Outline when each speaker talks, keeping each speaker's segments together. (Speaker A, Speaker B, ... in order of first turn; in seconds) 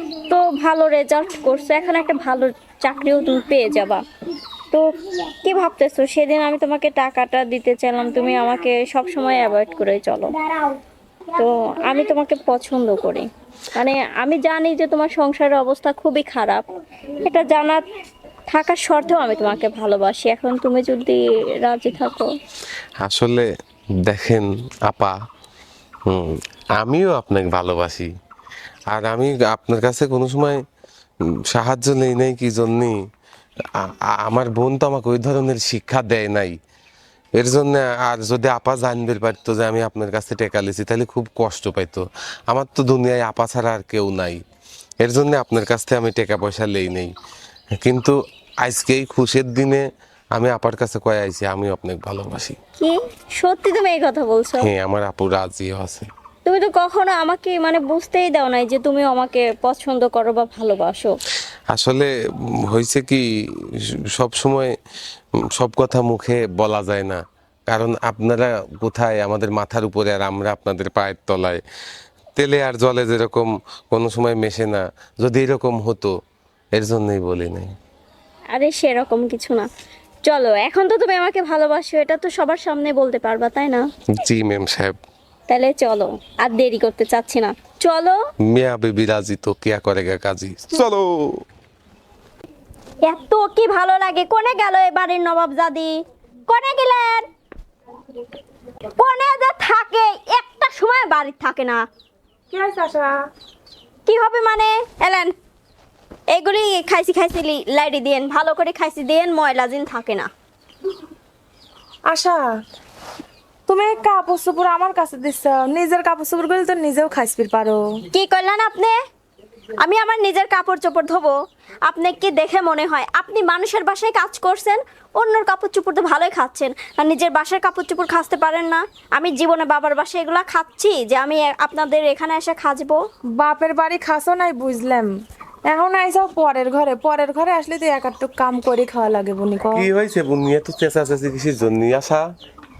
Speaker A: 0.3-4.0, 5.4-10.3, 11.3-16.6, 17.2-17.8, 18.5-22.3, 52.8-54.7, 56.5-61.1, 78.5-79.7, 80.3-83.8, 85.5-88.2, 93.0-96.0, 96.5-97.3, 99.0-101.8, 104.1-105.3, 106.3-110.3, 118.1-119.0, 119.8-121.3, 121.9-133.0
Speaker B: 23.0-23.5, 24.0-25.1, 26.1-28.1, 28.9-30.6, 31.5-33.0, 33.8-36.5, 37.4-44.4, 45.0-47.1, 47.8-49.8, 50.4-52.5, 54.6-56.1, 61.7-62.1, 62.7-63.2, 64.1-64.7, 65.6-67.2, 67.7-71.6, 72.4-76.1, 76.8-77.7, 84.2-85.0, 88.5-91.4, 139.7-142.2
Speaker C: 102.5-103.2, 112.1-112.4, 113.7-117.8, 133.4-135.1, 135.7-139.9